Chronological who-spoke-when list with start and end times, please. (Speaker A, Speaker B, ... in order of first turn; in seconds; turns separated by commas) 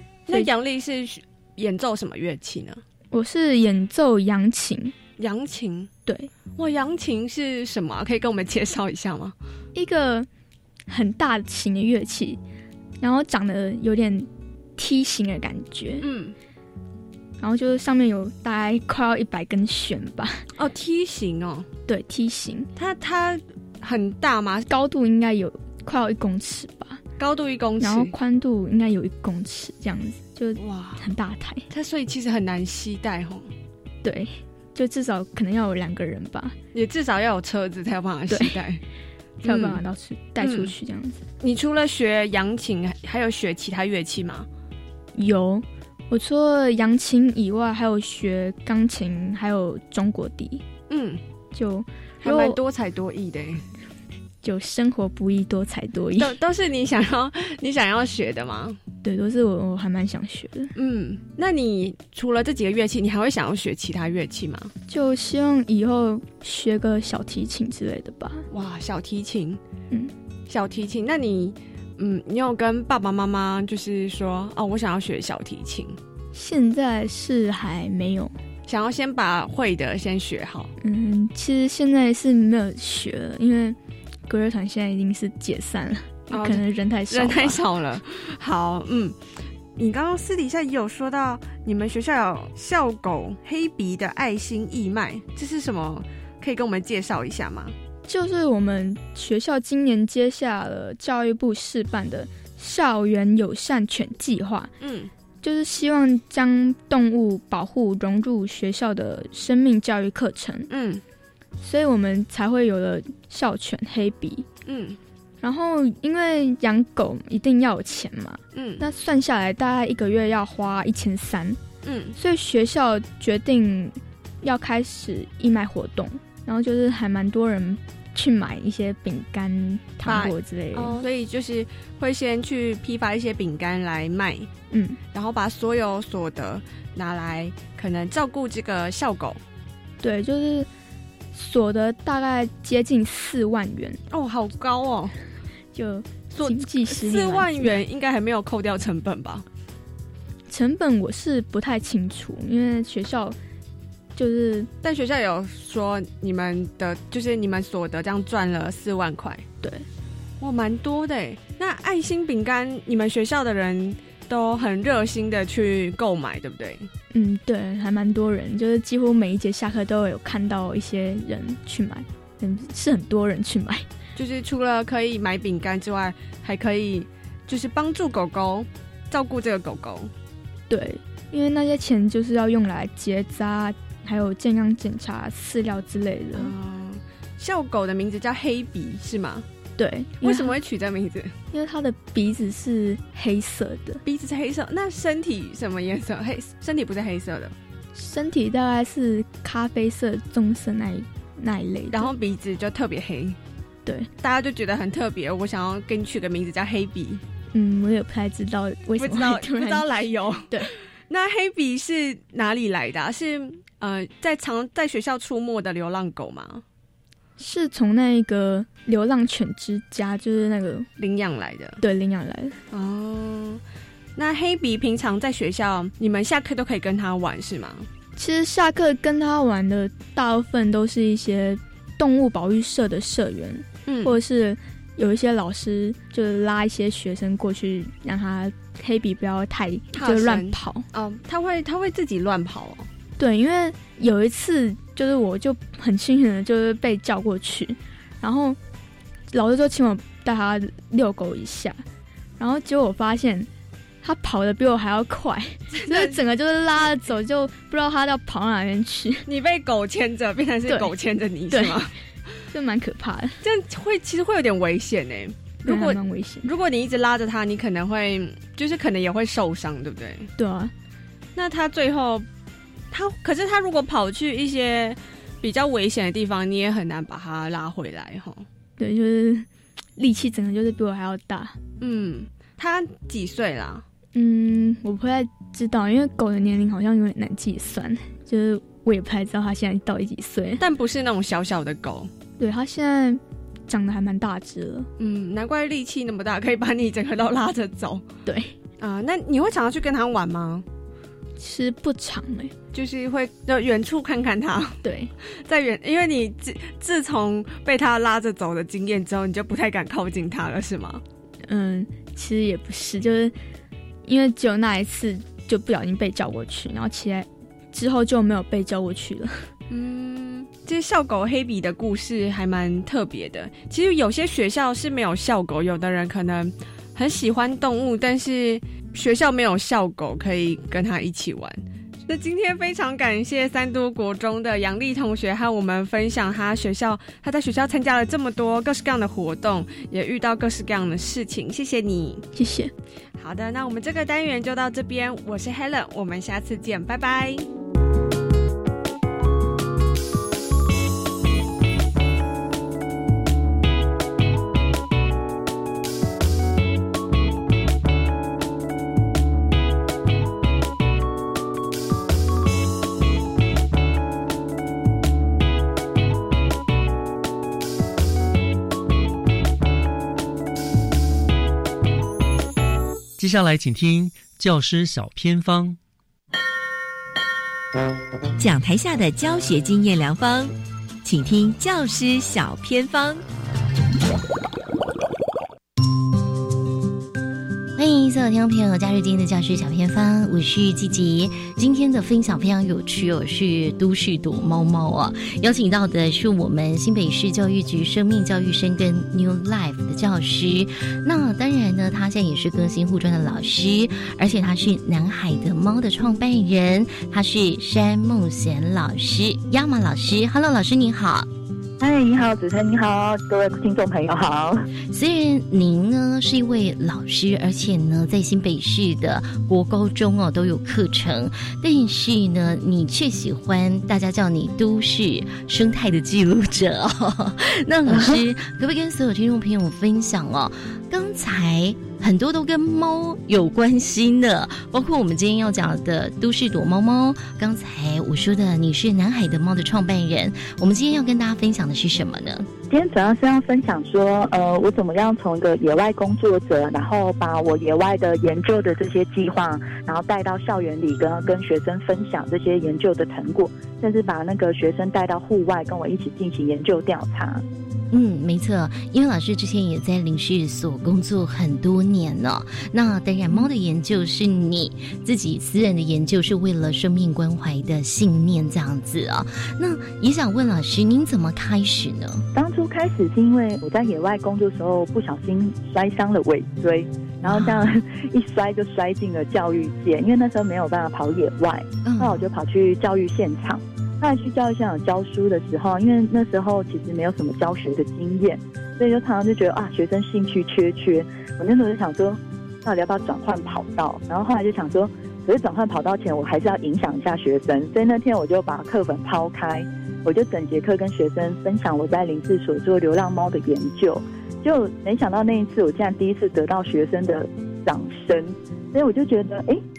Speaker A: 0.3-2.8, Speaker B: 3.1-4.9, Speaker A: 5.2-5.9, Speaker A: 6.5-9.3, Speaker B: 9.7-10.3, Speaker B: 10.9-12.4, Speaker B: 13.0-16.1, Speaker A: 16.0-16.3, Speaker B: 17.4-20.5, Speaker A: 20.6-21.7, Speaker B: 21.9-22.7, Speaker A: 22.8-24.7, Speaker B: 24.7-27.0, Speaker A: 27.2-28.1, Speaker B: 27.8-31.6, Speaker A: 30.6-31.0, Speaker A: 31.7-33.5, Speaker B: 34.0-36.5, Speaker A: 36.7-38.8, Speaker B: 38.3-38.5, Speaker B: 39.4-41.2, Speaker A: 39.4-39.8, Speaker A: 40.4-40.7, Speaker A: 41.4-44.5, Speaker B: 45.1-50.6, Speaker A: 50.9-51.2, Speaker B: 51.5-52.6, Speaker A: 52.2-53.6, Speaker B: 54.4-56.3, Speaker A: 56.2-58.8, Speaker B: 59.0-60.7, Speaker A: 60.8-64.7, Speaker B: 64.9-68.5, Speaker A: 68.5-69.6, Speaker A: 70.5-76.0, Speaker B: 76.3-78.3, Speaker A: 78.7-80.7, Speaker B: 80.8-87.6, Speaker A: 86.3-89.2, Speaker A: 89.8-97.7, Speaker B: 98.1-104.7, Speaker A: 104.8-105.1, Speaker B: 105.4-110.7, Speaker A: 110.7-111.0, Speaker B: 111.6-114.5, Speaker A: 114.7-115.0, Speaker B: 115.4-121.6, Speaker A: 118.5-118.8, Speaker A: 121.8-122.1, Speaker B: 122.2-131.0, Speaker A: 130.0-134.5, Speaker B: 134.7-135.0, Speaker A: 135.1-139.4, Speaker B: 140.0-140.7, Speaker B: 141.3-144.0, Speaker A: 144.1-145.2, Speaker B: 145.7-147.7, Speaker A: 146.3-149.4, Speaker B: 150.5-153.3, Speaker B: 154.2-154.7, Speaker A: 154.8-159.4, Speaker A: 160.4-166.9, Speaker B: 167.1-173.8, Speaker A: 174.2-180.1, Speaker B: 180.7-186.5, Speaker A: 186.3-189.4, Speaker B: 189.8-190.5, Speaker A: 190.2-191.3, Speaker B: 191.5-194.0, Speaker A: 194.0-197.5, Speaker B: 197.9-202.1, Speaker A: 201.9-203.4, Speaker A: 204.2-207.2, Speaker B: 207.5-210.7, Speaker A: 209.0-216.6, Speaker B: 217.4-220.9, Speaker A: 221.0-221.8, Speaker B: 221.8-222.6, Speaker A: 222.7-223.6, Speaker A: 224.2-227.9, Speaker B: 228.2-240.8, Speaker A: 233.8-234.2, Speaker A: 239.9-242.9, Speaker B: 243.2-248.6, Speaker B: 249.3-251.8, Speaker B: 252.4-253.5, Speaker B: 254.0-259.2, Speaker A: 255.8-256.1, Speaker A: 259.2-261.9, Speaker B: 261.5-261.8, Speaker B: 262.5-263.4, Speaker A: 263.4-270.3, Speaker B: 265.6-266.5, Speaker B: 270.4-270.7, Speaker A: 271.4-272.3, Speaker A: 272.9-278.4, Speaker B: 278.8-281.6, Speaker A: 281.8-283.8, Speaker B: 284.1-290.6, Speaker A: 290.6-292.1, Speaker B: 292.4-294.9, Speaker A: 295.0-298.0, Speaker B: 298.2-298.5, Speaker A: 298.8-300.6, Speaker B: 301.4-302.5, Speaker A: 302.7-304.8, Speaker B: 304.8-305.1, Speaker A: 305.4-311.0, Speaker B: 311.5-313.3, Speaker B: 314.0-319.5, Speaker A: 319.7-342.2, Speaker B: 342.3-342.7, Speaker A: 343.2-347.4, Speaker C: 373.2-375.8, Speaker D: 378.4-383.2, Speaker E: 387.8-411.3, Speaker F: 411.8-414.7, Speaker E: 414.9-442.4, Speaker F: 427.9-428.1, Speaker F: 442.7-457.4, Speaker E: 457.9-472.2, Speaker F: 472.3-509.6, Speaker E: 477.2-477.8, Speaker E: 481.8-482.2